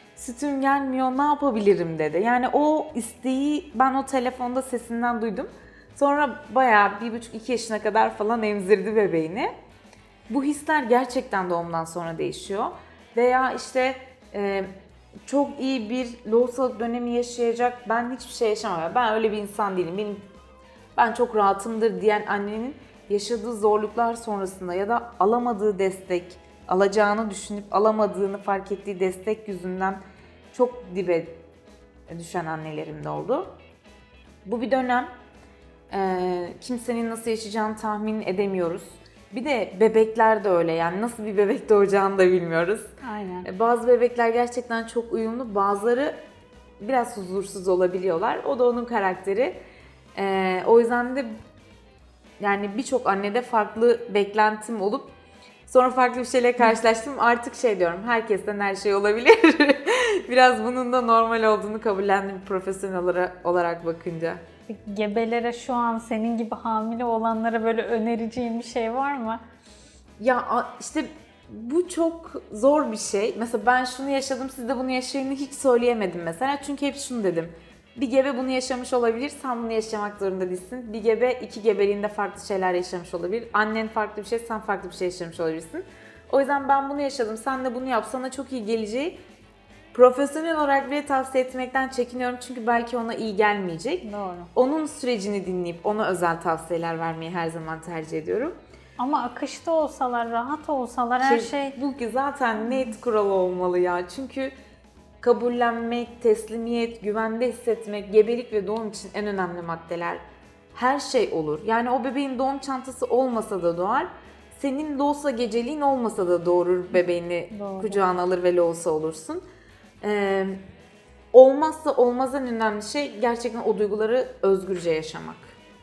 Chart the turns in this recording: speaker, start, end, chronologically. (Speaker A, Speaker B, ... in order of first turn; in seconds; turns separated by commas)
Speaker A: 0.1-9.5, Speaker A: 10.3-14.7, Speaker A: 15.3-20.3, Speaker A: 21.0-30.0, Speaker A: 30.5-31.4, Speaker A: 32.1-33.5, Speaker A: 34.5-35.1, Speaker A: 35.9-42.9, Speaker B: 43.0-43.5, Speaker A: 43.5-46.2, Speaker A: 46.8-49.6, Speaker A: 50.2-51.3, Speaker A: 52.4-55.1, Speaker A: 55.7-64.4, Speaker B: 64.7-69.4, Speaker A: 70.2-89.2, Speaker A: 89.9-98.6, Speaker B: 94.0-94.5, Speaker B: 99.0-101.8, Speaker A: 101.2-104.5, Speaker A: 105.2-110.2, Speaker A: 110.7-119.4, Speaker B: 117.5-118.0, Speaker A: 120.0-120.6, Speaker A: 121.3-125.6